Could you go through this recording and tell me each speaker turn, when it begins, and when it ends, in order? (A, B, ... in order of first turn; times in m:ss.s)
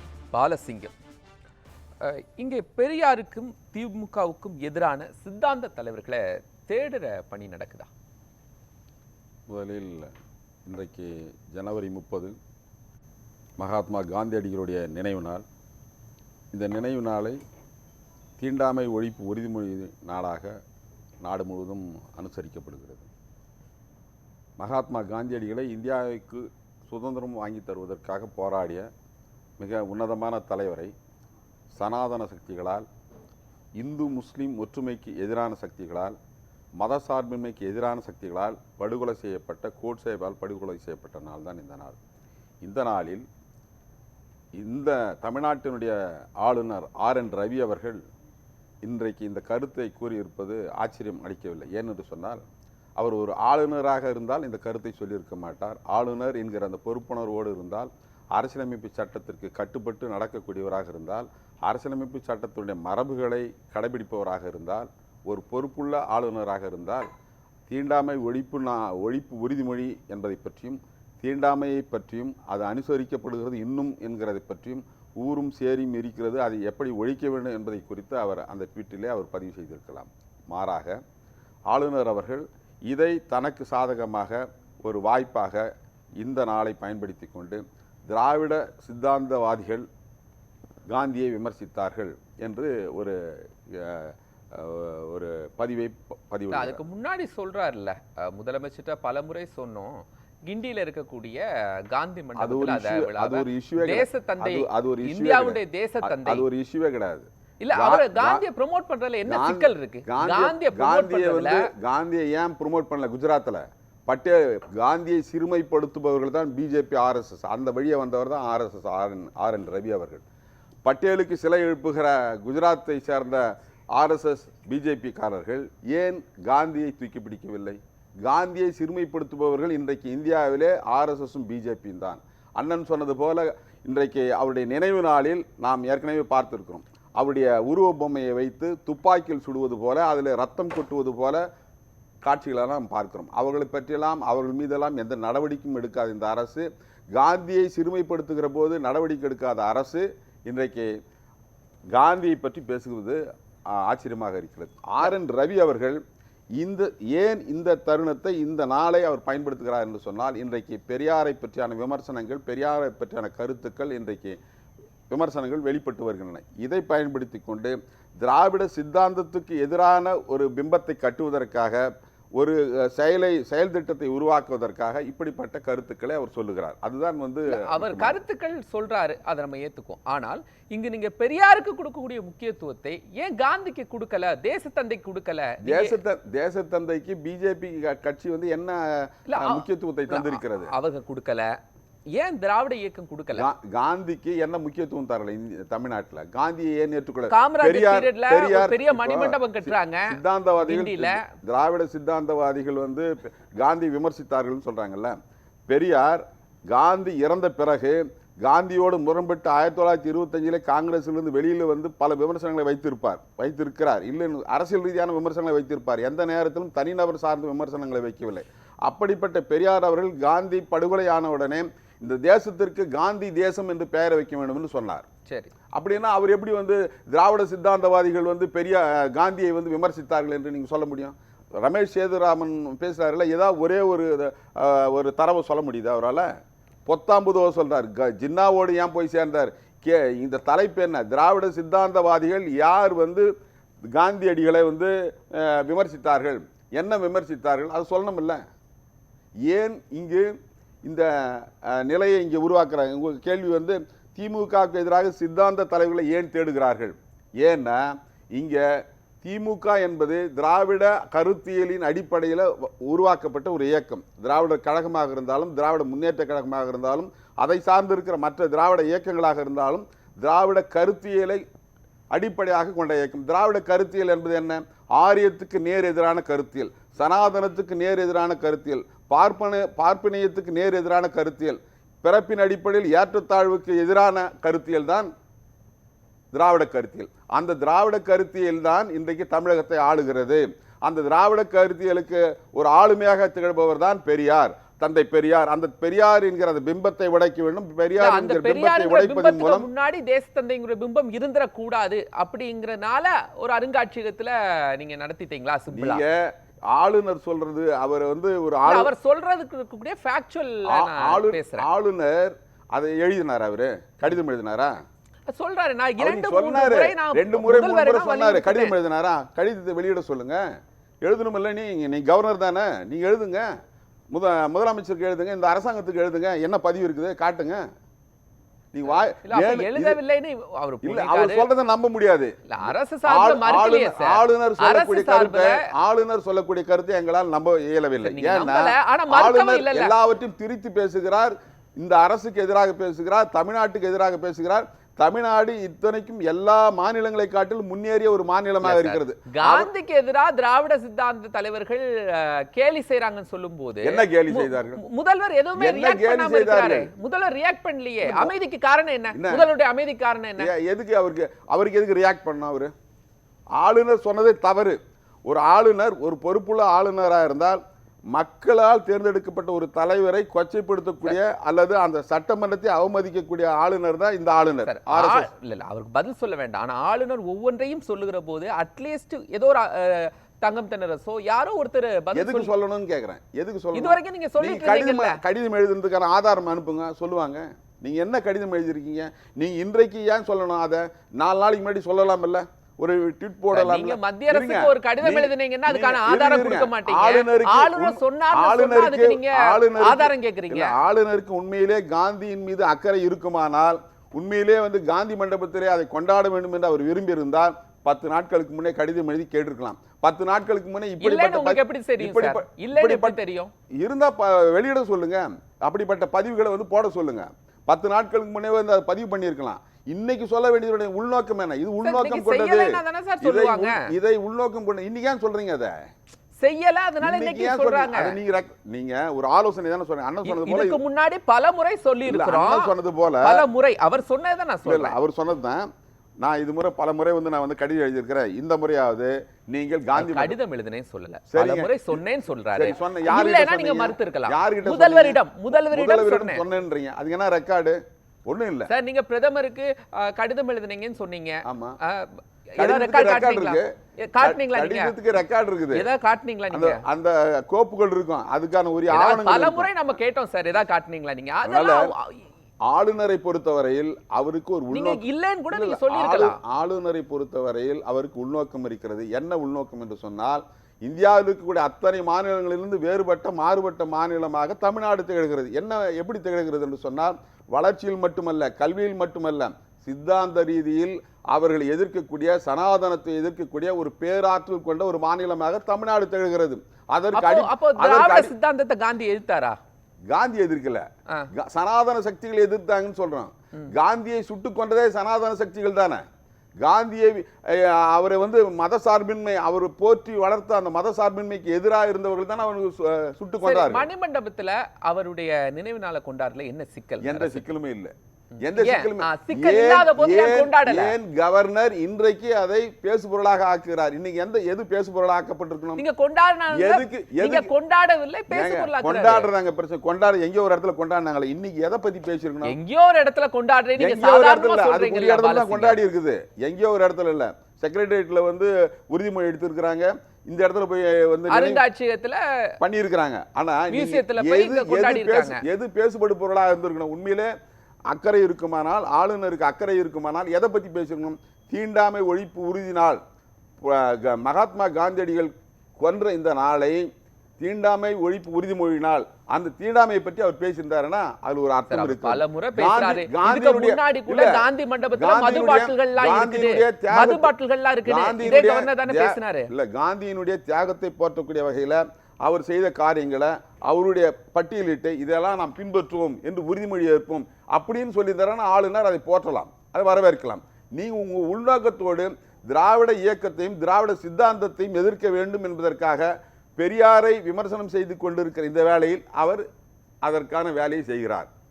0:00.3-0:00.9 A
0:02.0-0:07.9 A
0:09.5-0:10.1 B
0:10.6-0:12.3 B
0:13.6-0:15.4 B
0:16.5-0:17.4 B
0:18.4-0:20.5 B
0:21.2-0:23.1 B
0:24.6-0:28.9 B
0:29.6-0:30.9 B
0:31.7-0:32.9 B
0:33.8-0:36.2 B
0:36.8-0:42.0 B
0:42.6-0:43.2 B
0:44.6-0:48.0 B
0:48.8-0:52.4 B
0:53.0-1:07.1 B
1:07.7-1:21.0 B
1:21.7-1:25.7 B
1:26.2-1:29.8 B
1:30.9-1:36.8 B
1:36.5-1:46.4 A
1:42.4-1:48.4 B
1:47.6-1:51.7 A
1:49.2-2:00.2 B
2:00.8-2:03.4 B
2:04.0-2:21.4 B
2:22.2-2:30.9 B
2:31.9-2:36.0 B
2:36.6-2:44.4 B
2:45.1-2:51.8 B
2:52.4-2:58.2 B
2:57.5-3:06.0 A
3:05.6-3:10.7 B
3:09.3-3:11.5 A
3:12.1-3:13.5 A
3:13.3-3:25.2 B
3:17.3-3:21.2 A
3:25.7-3:45.1 B
3:45.2-3:45.5 A
3:45.7-3:56.3 B
3:56.8-4:03.3 B
4:03.9-4:08.4 B
4:09.5-4:10.3 B
4:10.8-4:18.6 B
4:19.2-4:31.4 B
4:32.1-4:45.1 B
4:46.3-4:59.7 B
4:58.0-5:06.0 A
5:05.7-5:08.9 B
5:08.6-5:11.7 A
5:10.7-5:14.8 B
5:15.3-5:18.8 A
5:16.0-5:20.4 B
5:21.0-5:23.5 B
5:24.1-5:27.6 B
5:28.7-5:30.0 B
5:28.9-5:31.5 A
5:30.8-5:32.4 B
5:32.5-5:35.6 A
5:33.1-5:49.7 B
5:38.0-5:40.0 A
5:48.6-6:00.5 A
5:53.8-5:54.8 B
5:55.6-5:56.9 B
5:58.0-5:58.3 B
5:59.1-5:59.5 B
6:00.4-6:02.7 B
6:03.6-6:07.6 B
6:08.1-6:15.3 B
6:14.7-6:22.5 A
6:22.1-6:53.2 B
6:23.7-6:25.2 A
6:33.5-6:40.8 A
6:51.0-6:53.5 A
6:53.8-7:05.8 B
7:01.8-7:03.9 A
7:06.4-7:08.2 A
7:07.0-7:10.8 B
7:10.2-7:12.7 A
7:12.1-7:13.4 B
7:13.2-7:15.0 A
7:14.7-7:15.7 B
7:16.2-7:20.4 B
7:20.0-7:26.4 A
7:21.3-7:22.0 B
7:22.5-7:28.7 B
7:28.7-7:35.0 A
7:31.4-7:31.8 B
7:32.6-7:35.9 B
7:35.7-7:36.8 A
7:36.5-7:39.7 B
7:38.9-7:42.3 A
7:41.4-7:41.9 B
7:42.7-8:08.3 B
7:44.7-7:46.4 A
8:07.1-8:09.6 A
8:10.1-8:16.0 B
8:16.6-8:23.9 B
8:23.4-8:27.4 A
8:27.0-8:35.8 B
8:28.5-8:31.0 A
8:35.8-8:39.3 A
8:36.5-8:37.5 B
8:38.3-8:42.6 B
8:42.4-8:45.8 A
8:43.8-8:51.6 B
8:51.3-8:52.5 A
8:52.6-8:57.3 B
8:53.7-8:55.4 A
8:57.9-9:03.0 B
9:03.6-9:06.9 B
9:07.4-9:14.4 B
9:11.7-9:19.5 A
9:14.9-9:17.3 B
9:17.8-9:39.4 B
9:40.0-9:41.3 B